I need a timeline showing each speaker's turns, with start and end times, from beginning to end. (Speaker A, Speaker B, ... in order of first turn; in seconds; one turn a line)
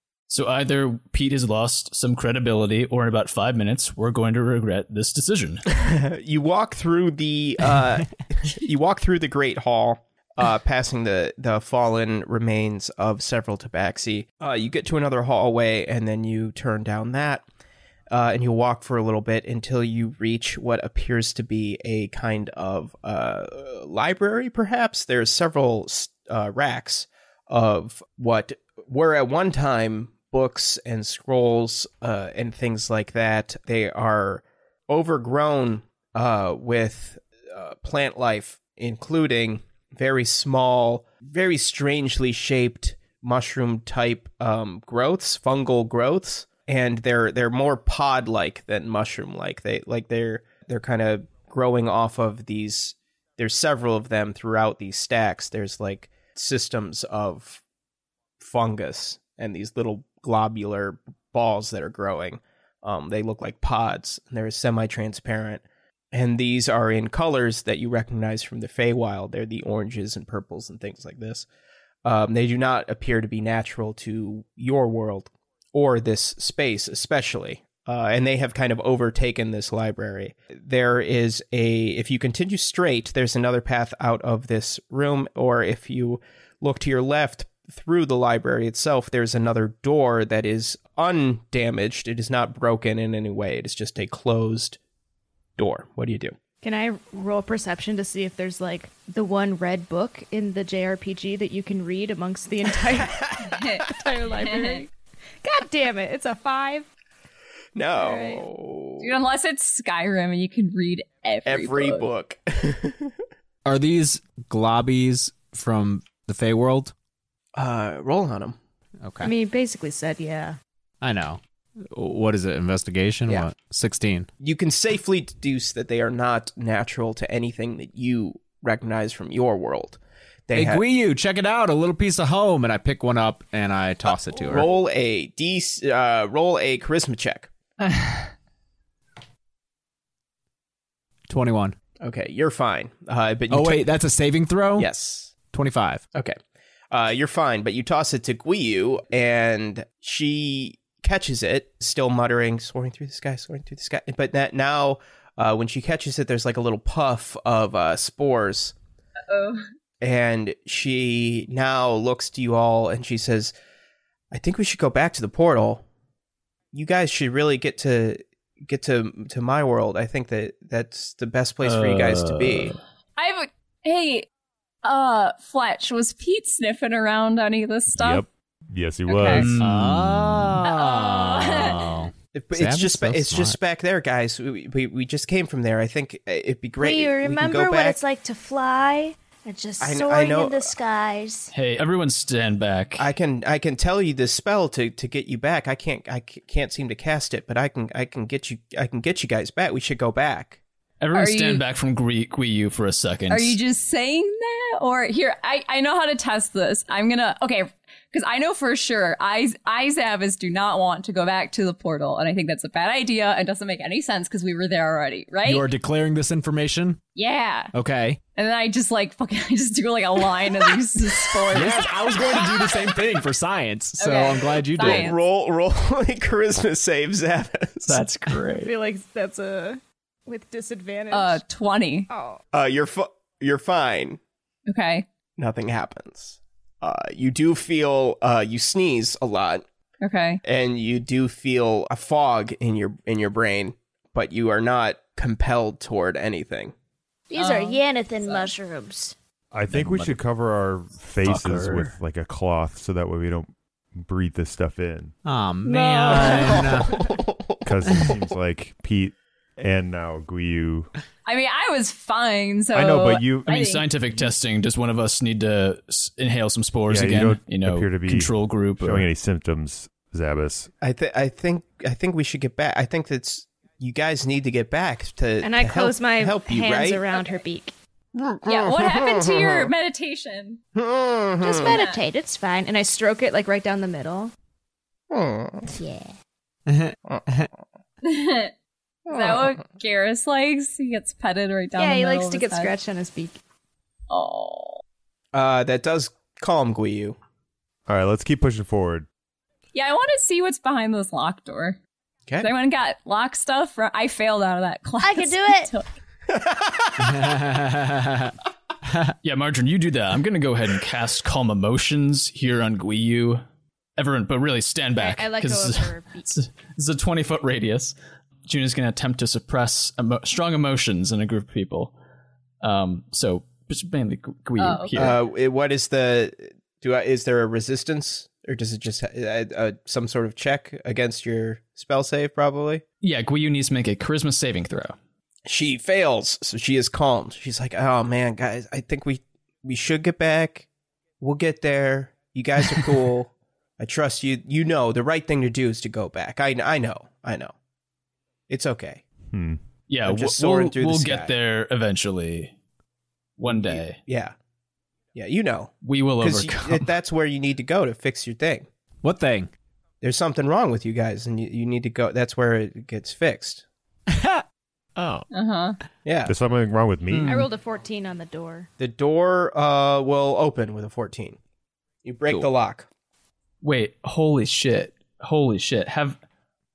Speaker A: 0.3-5.6
Speaker B: 5.7-17.4
Speaker B: 18.1-57.6
Speaker B: 58.4-71.5
Speaker B: 72.0-94.8
Speaker B: 95.6-96.4
Speaker C: 96.6-103.3
Speaker B: 103.0-103.4
Speaker D: 103.4-104.9
Speaker C: 103.9-104.9
Speaker C: 105.4-106.9
Speaker B: 107.8-109.1
Speaker C: 108.0-108.5
Speaker D: 109.0-112.1
Speaker B: 111.5-113.1
Speaker E: 113.7-116.9
Speaker B: 117.6-118.6
Speaker E: 119.0-119.3
Speaker C: 119.2-120.6
Speaker E: 121.0-124.3
Speaker B: 124.4-130.8
Speaker E: 130.5-134.7
Speaker B: 134.4-137.5
Speaker A: 137.8-138.3
Speaker E: 141.3-141.8
Speaker B: 142.0-143.8
Speaker E: 143.5-144.9
Speaker B: 144.8-145.3
Speaker E: 145.5-146.0
Speaker B: 146.9-158.8
Speaker D: 159.3-159.6
Speaker B: 160.0-163.5
Speaker B: 164.3-165.8
Speaker B: 166.7-172.8
Speaker A: 171.6-172.8
Speaker D: 173.2-174.3
Speaker D: 174.8-178.2
Speaker F: 177.9-179.6
Speaker D: 179.1-179.5
Speaker A: 179.3-180.0
Speaker E: 179.6-183.6
Speaker D: 180.7-181.8
Speaker B: 182.3-188.0
Speaker G: 186.8-191.5
Speaker B: 189.8-190.7
Speaker A: 191.5-193.1
Speaker B: 193.0-200.6
Speaker A: 201.0-203.6
Speaker D: 201.1-201.6
Speaker D: 203.3-215.7
Speaker E: 215.4-217.0
Speaker D: 217.2-217.7
Speaker E: 217.7-218.2
Speaker D: 218.4-221.9
Speaker E: 221.5-225.1
Speaker D: 224.0-225.2
Speaker B: 224.8-228.0
Speaker A: 227.9-228.7
Speaker C: 228.6-231.4
Speaker D: 231.1-232.1
Speaker C: 232.1-232.4
Speaker B: 232.5-234.2
Speaker D: 234.7-235.1
Speaker B: 235.4-239.6
Speaker D: 240.0-240.4
Speaker B: 240.4-246.7
Speaker G: 247.3-249.2
Speaker D: 247.4-248.5
Speaker F: 249.5-255.1
Speaker A: 249.7-250.2
Speaker A: 251.2-251.9
Speaker E: 255.2-257.0
Speaker D: 255.7-256.5
Speaker B: 256.1-258.3
Speaker F: 257.6-260.9
Speaker D: 261.3-263.9
Speaker F: 262.7-263.5
Speaker A: 263.5-269.1
Speaker F: 266.9-270.7
Speaker B: 270.8-277.2
Speaker C: 275.4-277.7
Speaker B: 278.1-279.7
Speaker D: 278.4-280.6
Speaker B: 280.8-281.8
Speaker G: 281.4-282.4
Speaker D: 281.6-282.0
Speaker C: 282.2-284.3
Speaker B: 285.1-285.7
Speaker G: 285.7-286.1
Speaker E: 286.7-287.4
Speaker D: 288.0-288.5
Speaker B: 289.1-289.6
Speaker D: 289.1-292.7
Speaker C: 291.8-293.4
Speaker D: 294.1-294.8
Speaker B: 295.3-297.2
Speaker F: 297.9-299.1
Speaker D: 299.7-301.8
Speaker D: 302.4-305.9
Speaker G: 305.0-305.7
Speaker B: 306.3-307.3
Speaker E: 307.0-308.3
Speaker E: 308.9-309.1
Speaker A: 309.2-313.4
Speaker A: 314.0-317.9
Speaker C: 315.0-316.3
Speaker A: 318.5-321.9
Speaker A: 322.6-325.2
Speaker D: 324.6-325.0
Speaker B: 324.9-332.8
Speaker A: 333.0-334.9
Speaker B: 335.5-340.7
Speaker B: 341.2-347.5
Speaker B: 348.5-349.0
Speaker F: 349.3-349.6
Speaker A: 349.9-352.5
Speaker B: 350.1-351.3
Speaker A: 353.4-354.0
Speaker B: 353.5-354.4
Speaker B: 355.1-358.7
Speaker A: 355.8-356.9
Speaker E: 359.0-359.5
Speaker B: 360.0-363.6
Speaker E: 364.1-364.4
Speaker E: 365.0-365.2
Speaker D: 365.3-365.8
Speaker B: 366.1-366.3
Speaker F: 366.3-367.4
Speaker A: 367.1-367.5
Speaker C: 367.2-368.7
Speaker B: 368.8-371.4
Speaker B: 372.0-372.9
Speaker A: 373.6-376.2